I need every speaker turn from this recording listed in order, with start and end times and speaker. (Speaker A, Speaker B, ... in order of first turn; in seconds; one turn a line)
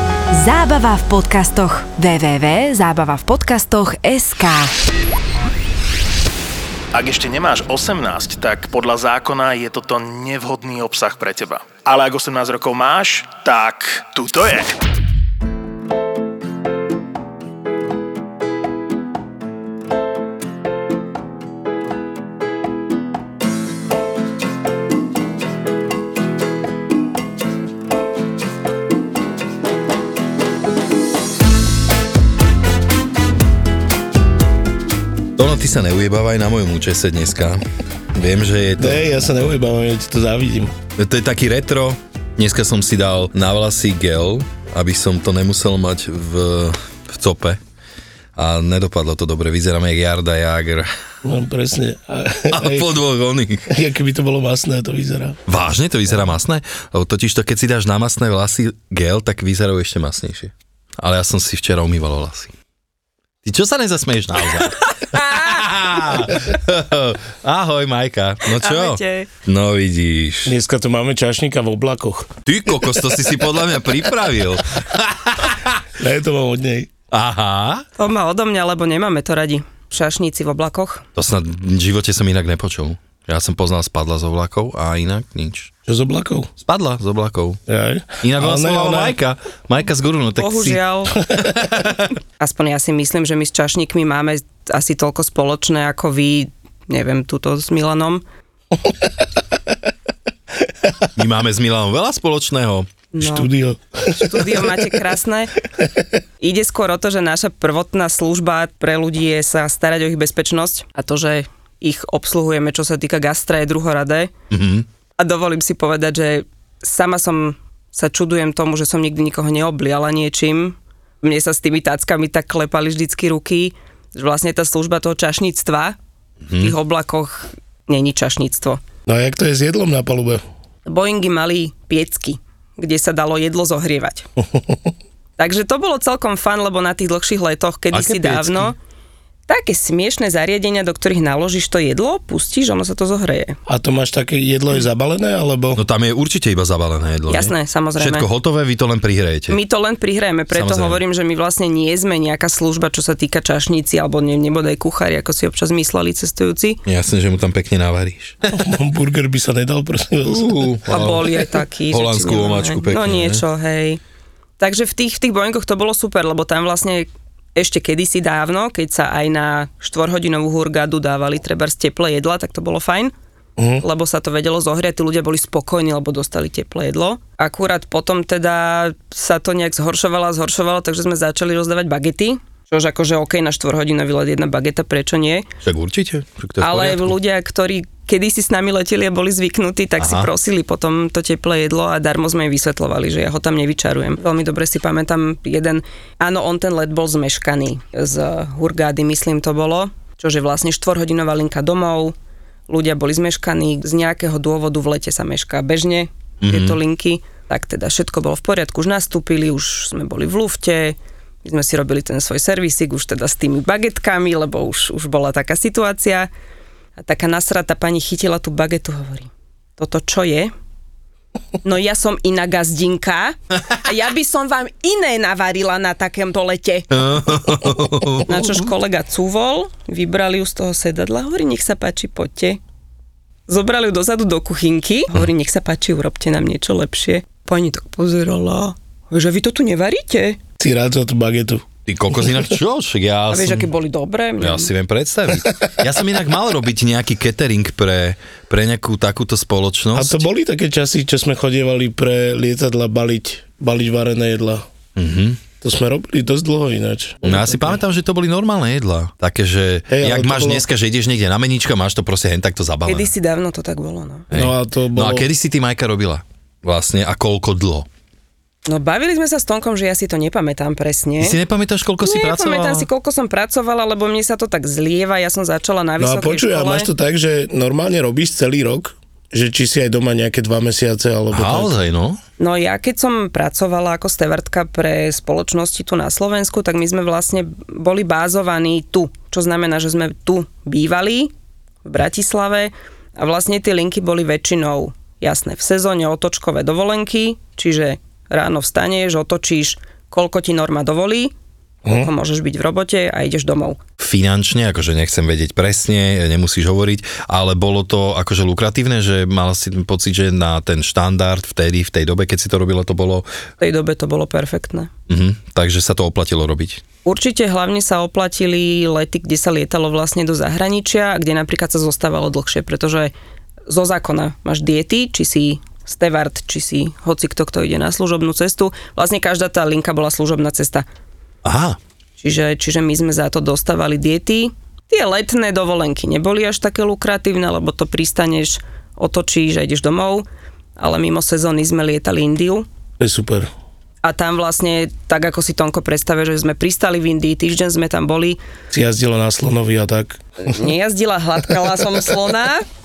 Speaker A: 0.3-4.7
Speaker B: 6.9-14.8
Speaker C: 35.4-37.6
Speaker C: 38.1-39.1
Speaker D: 38.8-40.7
Speaker C: 41.0-47.6
Speaker C: 48.4-50.9
Speaker D: 51.2-52.9
Speaker C: 52.5-53.8
Speaker D: 53.7-55.4
Speaker C: 55.5-62.5
Speaker C: 63.4-70.5
Speaker E: 65.0-65.7
Speaker E: 68.5-69.3
Speaker D: 70.5-72.3
Speaker C: 72.4-75.8
Speaker D: 76.0-76.9
Speaker C: 77.1-77.8
Speaker E: 78.0-81.0
Speaker C: 81.2-85.7
Speaker D: 85.9-86.5
Speaker C: 86.6-87.6
Speaker D: 87.7-89.2
Speaker C: 88.2-90.8
Speaker E: 90.4-91.2
Speaker C: 91.4-92.0
Speaker E: 92.4-98.2
Speaker C: 101.1-102.9
Speaker E: 103.1-103.5
Speaker D: 103.2-104.9
Speaker E: 104.1-105.5
Speaker E: 106.4-114.3
Speaker C: 114.5-114.8
Speaker E: 115.2-126.0
Speaker C: 126.5-126.7
Speaker E: 126.5-128.8
Speaker D: 129.1-130.4
Speaker E: 130.8-134.2
Speaker E: 135.4-138.7
Speaker C: 137.9-138.7
Speaker E: 139.5-143.6
Speaker D: 143.7-145.8
Speaker C: 145.8-149.6
Speaker E: 147.3-148.3
Speaker E: 149.5-156.8
Speaker C: 150.5-151.0
Speaker C: 156.8-158.4
Speaker D: 158.5-160.8
Speaker C: 160.2-163.4
Speaker E: 160.9-164.0
Speaker E: 164.6-173.1
Speaker D: 173.6-173.8
Speaker E: 173.8-185.4
Speaker C: 185.6-187.2
Speaker E: 186.6-202.1
Speaker C: 190.0-190.3
Speaker E: 202.7-216.3
Speaker C: 206.4-206.8
Speaker E: 217.0-220.5
Speaker E: 221.6-227.0
Speaker C: 226.9-228.6
Speaker E: 228.2-232.6
Speaker E: 233.5-240.4
Speaker D: 240.6-242.5
Speaker C: 241.9-243.7
Speaker E: 243.3-244.7
Speaker C: 244.4-250.2
Speaker D: 249.9-254.7
Speaker C: 254.9-255.4
Speaker D: 255.6-257.8
Speaker C: 257.2-263.1
Speaker D: 259.9-260.6
Speaker E: 262.9-264.3
Speaker C: 264.3-267.9
Speaker D: 264.3-265.3
Speaker E: 268.6-271.4
Speaker C: 271.2-272.9
Speaker E: 272.0-276.9
Speaker D: 276.0-281.7
Speaker C: 281.3-282.2
Speaker E: 282.4-291.3
Speaker E: 291.8-301.3
Speaker D: 301.8-302.1
Speaker E: 301.9-303.8
Speaker C: 304.0-313.2
Speaker E: 313.6-314.9
Speaker C: 315.1-316.8
Speaker E: 317.0-323.1
Speaker E: 323.7-330.8
Speaker C: 331.4-331.8
Speaker E: 332.2-340.2
Speaker E: 340.8-342.6
Speaker D: 343.0-343.5
Speaker E: 344.0-348.4
Speaker D: 348.7-350.2
Speaker E: 350.4-352.6